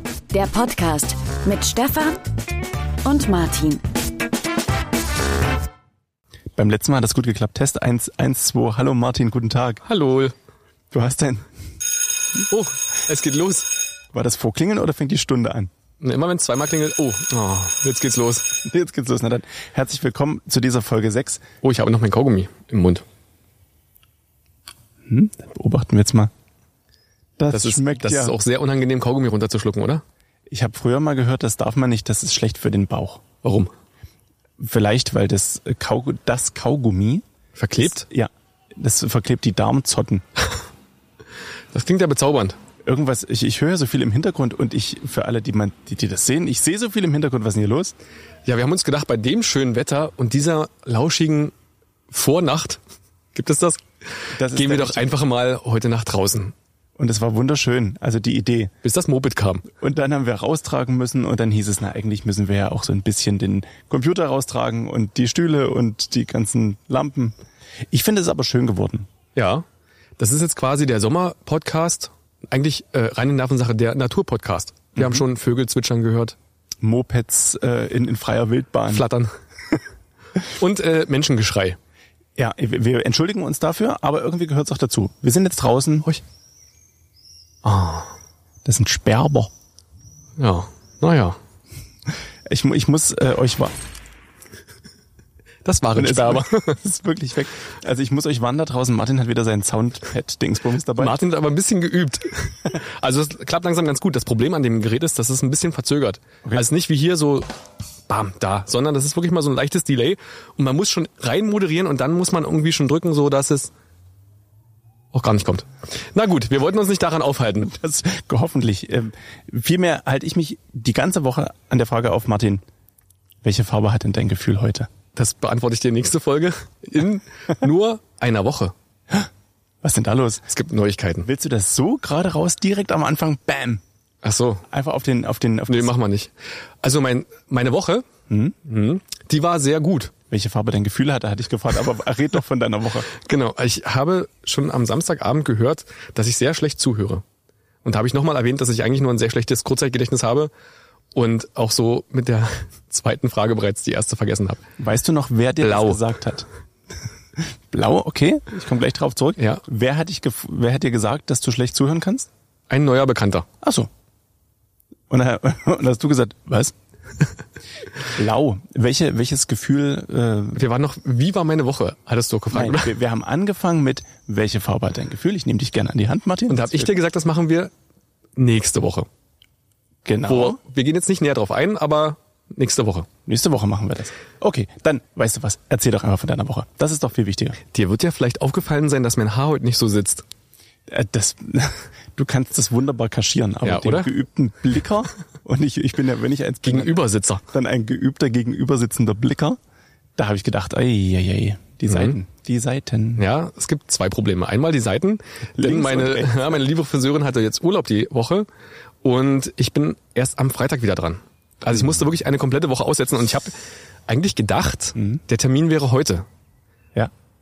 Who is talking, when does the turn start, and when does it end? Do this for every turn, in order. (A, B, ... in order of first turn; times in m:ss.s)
0:00.3-0:02.2 A
0:03.0-0:03.8 A
0:06.6-0:09.8 B
0:09.8-0:10.3 C
0:10.9-0:11.5 B
0:12.5-0:13.7 C
0:14.1-0:15.7 B
0:16.0-0:18.6 C
0:18.6-0:21.4 B
0:21.6-0:23.0 C
0:25.0-0:26.3 B
0:27.4-0:28.4 B
0:27.5-0:30.0 C
0:30.5-0:33.2 B
0:33.4-0:33.7 C
0:34.6-0:37.2 B
0:37.5-0:38.0 C
0:37.8-0:40.2 B
0:41.7-0:42.6 C
0:42.8-0:47.9 B
0:48.4-0:51.5 C
0:52.1-0:52.8 C
0:53.3-0:53.8 C
0:54.3-0:55.1 B
0:54.4-0:56.5 C
0:57.0-0:58.7 B
0:58.8-0:59.7 C
0:59.8-1:07.4 B
1:07.9-1:09.1 B
1:09.3-1:09.6 C
1:10.2-1:16.4 C
1:14.9-1:15.2 B
1:16.8-1:19.0 B
1:18.9-1:19.3 C
1:20.6-1:21.8 C
1:22.4-1:26.1 B
1:27.6-1:28.1 C
1:28.6-1:29.5 B
1:30.4-1:31.4 C
1:32.5-1:33.7 B
1:35.6-1:36.8 C
1:35.9-1:41.2 B
1:41.0-1:47.5 C
1:48.1-1:53.7 C
1:55.1-1:57.7 C
1:57.7-2:02.6 B
2:03.4-2:04.9 B
2:05.1-2:08.7 C
2:09.8-2:10.4 B
2:10.5-2:11.3 C
2:11.2-2:13.8 B
2:14.2-2:14.6 C
2:14.7-2:15.9 B
2:15.7-2:18.1 C
2:18.3-2:18.6 B
2:18.6-2:20.1 C
2:20.3-2:23.1 B
2:23.1-2:27.2 C
2:27.8-2:30.5 C
2:31.1-2:34.6 C
2:34.8-2:36.5 B
2:35.6-2:36.0 C
2:37.7-2:42.3 B
2:42.7-2:43.5 C
2:43.6-2:43.9 B
2:45.1-2:46.7 B
2:48.1-2:50.6 B
2:50.5-2:52.9 C
2:52.5-2:56.9 B
2:56.5-2:57.7 C
2:58.4-2:59.1 C
3:00.0-3:00.6 B
3:00.3-3:03.1 C
3:03.2-3:07.6 B
3:07.7-3:10.2 C
3:10.9-3:19.6 B
3:13.6-3:14.1 C
3:16.6-3:17.4 C
3:20.2-3:23.3 B
3:21.9-3:22.2 C
3:23.2-3:28.5 C
3:25.5-3:26.5 B
3:29.0-3:36.2 C
3:35.0-3:35.2 B